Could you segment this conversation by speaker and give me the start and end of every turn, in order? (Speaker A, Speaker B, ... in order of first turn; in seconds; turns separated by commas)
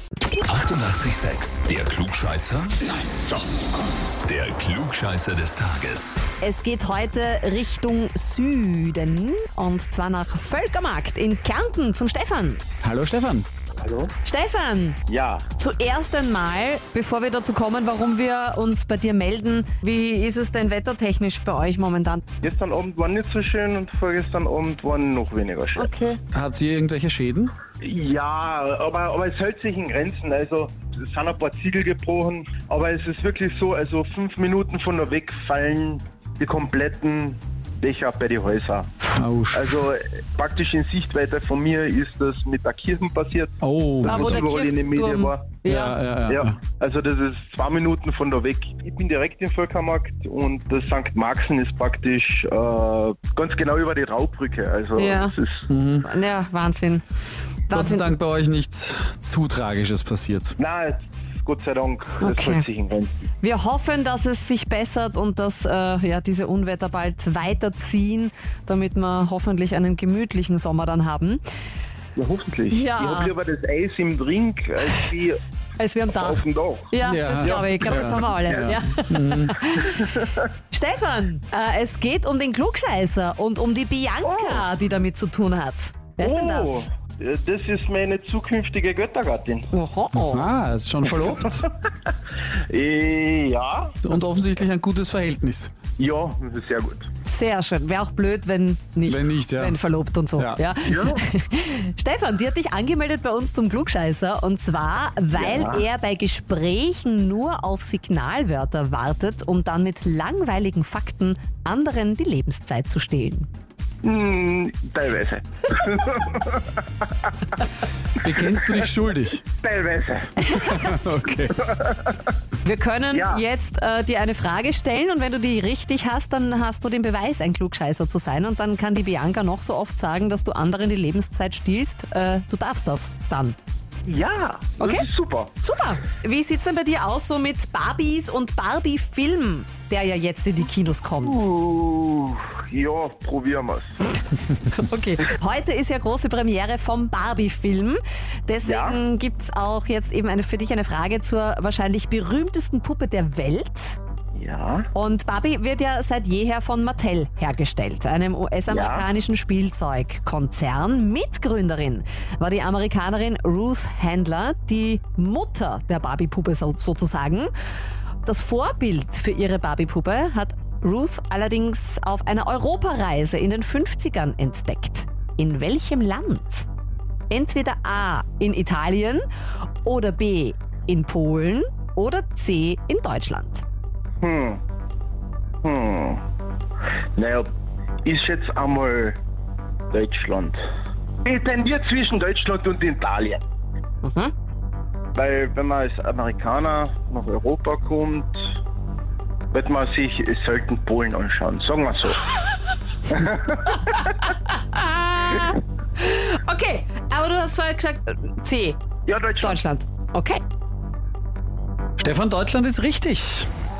Speaker A: 0.4-3.1, Speaker A: 4.2-6.2, Speaker B: 6.4-12.6, Speaker C: 12.8-13.5, Speaker D: 13.8-14.2, Speaker B: 14.2-15.0, Speaker D: 15.1-15.5, Speaker B: 15.6-22.2, Speaker D: 22.4-25.9, Speaker B: 25.8-26.2, Speaker C: 26.3-27.5, Speaker D: 27.8-38.9, Speaker C: 39.0-39.9, Speaker D: 39.5-45.6, Speaker C: 43.6-44.5, Speaker B: 44.0-46.0, Speaker C: 45.6-46.6, Speaker D: 46.3-55.7, Speaker B: 55.0-55.4, Speaker C: 55.7-56.1, Speaker B: 56.0-57.0, Speaker B: 57.7-58.1, Speaker C: 57.7-60.6, Speaker D: 60.6-63.1, Speaker B: 62.2-62.7, Speaker B: 63.4-71.4, Speaker D: 72.2-75.4, Speaker B: 72.7-73.3, Speaker B: 75.8-80.1, Speaker D: 76.1-78.8, Speaker C: 77.0-79.6, Speaker D: 79.8-80.5, Speaker B: 80.7-86.8, Speaker D: 84.2-84.7, Speaker D: 86.2-89.7, Speaker B: 89.7-90.5, Speaker C: 90.1-91.7, Speaker D: 92.1-94.0, Speaker C: 94.0-95.7, Speaker D: 96.0-97.1, Speaker B: 97.2-113.5, Speaker C: 99.1-99.8, Speaker C: 100.4-100.6, Speaker D: 100.9-101.2, Speaker D: 105.3-105.9, Speaker D: 114.0-117.3, Speaker C: 118.2-119.4, Speaker D: 118.4-118.9, Speaker D: 119.6-120.5, Speaker B: 120.5-121.0, Speaker C: 120.5-121.6, Speaker D: 121.6-122.3, Speaker B: 122.6-133.6, Speaker D: 123.1-123.4, Speaker D: 134.0-135.5, Speaker B: 134.8-135.1, Speaker B: 135.6-141.5, Speaker D: 141.2-144.0, Speaker B: 144.7-154.0, Speaker D: 148.6-149.0, Speaker D: 154.3-154.9, Speaker B: 154.9-167.5, Speaker D: 158.7-159.1, Speaker B: 168.2-176.7, Speaker B: 177.3-179.2, Speaker B: 179.8-183.6, Speaker D: 184.2-184.6, Speaker D: 185.6-186.2, Speaker D: 187.2-187.5, Speaker D: 188.0-189.2, Speaker D: 189.9-190.6, Speaker D: 191.2-193.4, Speaker B: 194.0-194.3, Speaker D: 195.2-198.4, Speaker D: 199.5-202.3, Speaker D: 203.1-204.1, Speaker B: 203.7-208.8, Speaker D: 209.1-209.6, Speaker B: 209.4-210.4, Speaker C: 212.0-213.5